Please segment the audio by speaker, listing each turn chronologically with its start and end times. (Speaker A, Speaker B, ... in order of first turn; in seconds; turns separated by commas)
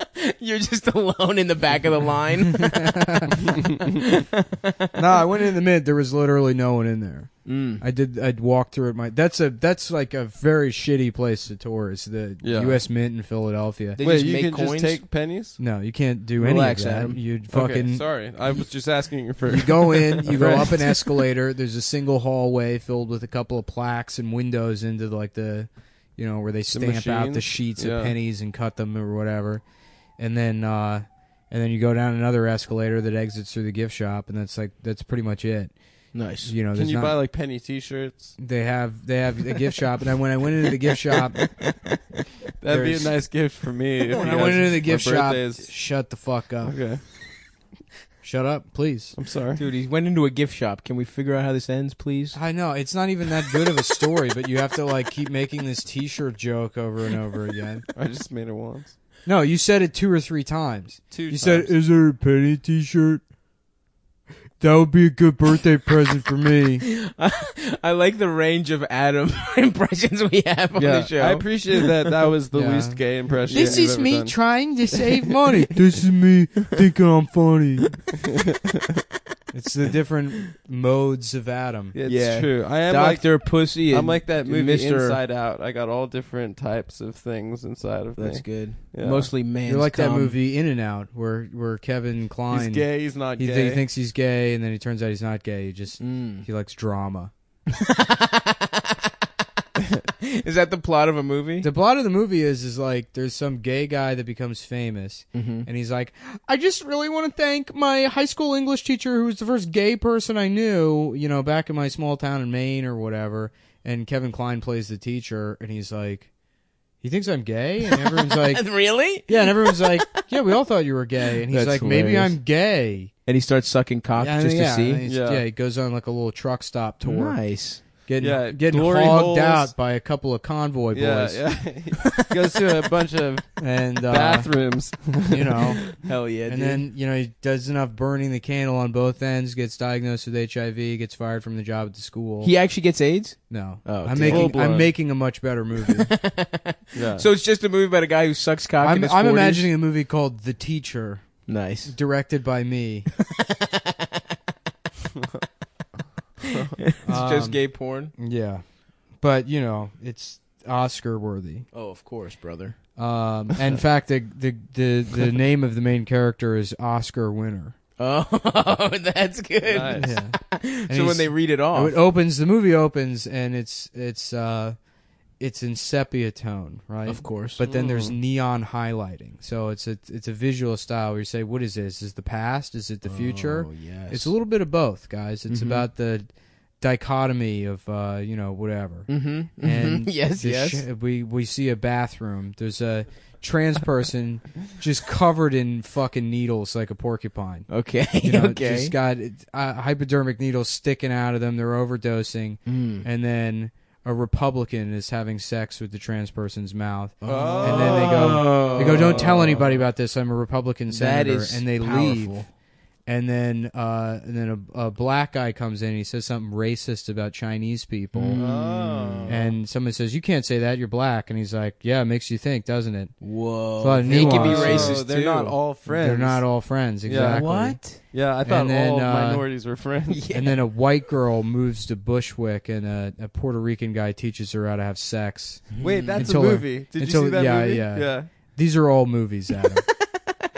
Speaker A: 0.2-5.2, Speaker B: 2.5-3.4, Speaker C: 3.5-4.0, Speaker B: 5.0-14.0, Speaker A: 7.5-7.8, Speaker C: 12.4-12.8, Speaker A: 13.9-15.0, Speaker C: 14.0-15.6, Speaker B: 15.6-18.1, Speaker A: 16.4-17.2, Speaker C: 17.5-20.9, Speaker B: 19.5-29.6, Speaker C: 26.7-28.1, Speaker B: 30.2-35.7, Speaker A: 36.1-36.5, Speaker B: 36.4-37.2, Speaker C: 36.7-38.4, Speaker B: 38.4-41.5, Speaker A: 41.1-41.9, Speaker C: 42.6-45.7, Speaker B: 42.7-43.1, Speaker A: 44.1-44.7, Speaker B: 44.2-46.8, Speaker C: 46.6-47.0, Speaker B: 48.2-49.1, Speaker C: 49.2-49.6, Speaker A: 49.6-52.4, Speaker B: 52.3-57.9, Speaker C: 58.0-59.0, Speaker B: 59.3-63.2, Speaker C: 61.1-61.7, Speaker B: 64.6-66.8, Speaker A: 66.8-72.1, Speaker C: 70.8-74.4, Speaker B: 72.5-78.0, Speaker A: 73.5-73.8, Speaker B: 79.5-82.0, Speaker C: 81.9-89.3, Speaker A: 82.1-85.2, Speaker A: 88.2-90.4, Speaker B: 89.7-97.3, Speaker C: 92.5-93.8, Speaker A: 96.0-96.5, Speaker A: 97.7-99.1, Speaker A: 100.2-101.7, Speaker B: 101.6-116.3, Speaker A: 105.3-105.7, Speaker B: 117.0-123.1, Speaker A: 117.9-120.3, Speaker A: 121.5-122.4, Speaker A: 123.3-125.0, Speaker B: 124.2-127.4, Speaker C: 125.0-125.5, Speaker A: 127.0-127.8, Speaker B: 128.1-131.4, Speaker C: 128.2-129.7, Speaker C: 130.9-133.6, Speaker B: 133.6-134.5, Speaker C: 134.1-135.6, Speaker B: 135.3-135.9, Speaker A: 135.9-136.8, Speaker B: 136.5-142.5, Speaker A: 142.4-144.6, Speaker B: 143.5-146.1, Speaker C: 144.2-144.9, Speaker A: 146.1-149.7, Speaker C: 146.9-147.2, Speaker B: 148.8-153.1, Speaker A: 151.5-151.9, Speaker A: 153.4-154.2, Speaker C: 156.5-156.8, Speaker A: 156.8-158.1, Speaker B: 157.0-157.6, Speaker B: 158.2-158.6, Speaker B: 159.2-161.7, Speaker A: 161.7-162.8, Speaker B: 163.0-167.8, Speaker A: 168.0-172.0, Speaker C: 169.7-170.1, Speaker B: 170.0-174.8, Speaker B: 175.4-186.3, Speaker A: 177.1-177.6, Speaker C: 177.6-178.2, Speaker A: 183.1-184.3, Speaker A: 185.5-185.8, Speaker B: 186.8-189.1, Speaker A: 189.1-190.8, Speaker B: 189.6-197.7, Speaker A: 197.7-198.9, Speaker B: 198.2-212.4, Speaker A: 202.7-203.1, Speaker A: 207.2-209.3, Speaker C: 207.2-209.8, Speaker A: 210.9-212.5, Speaker B: 213.1-218.4, Speaker A: 218.2-219.5, Speaker C: 218.3-219.5, Speaker B: 219.3-223.2, Speaker A: 223.2-225.6, Speaker B: 223.8-225.0, Speaker C: 224.1-226.5, Speaker B: 225.9-227.8, Speaker C: 227.1-230.3, Speaker A: 227.2-228.0, Speaker B: 228.4-229.5, Speaker A: 230.1-230.6, Speaker B: 230.3-239.9, Speaker A: 235.8-236.2, Speaker C: 235.8-238.3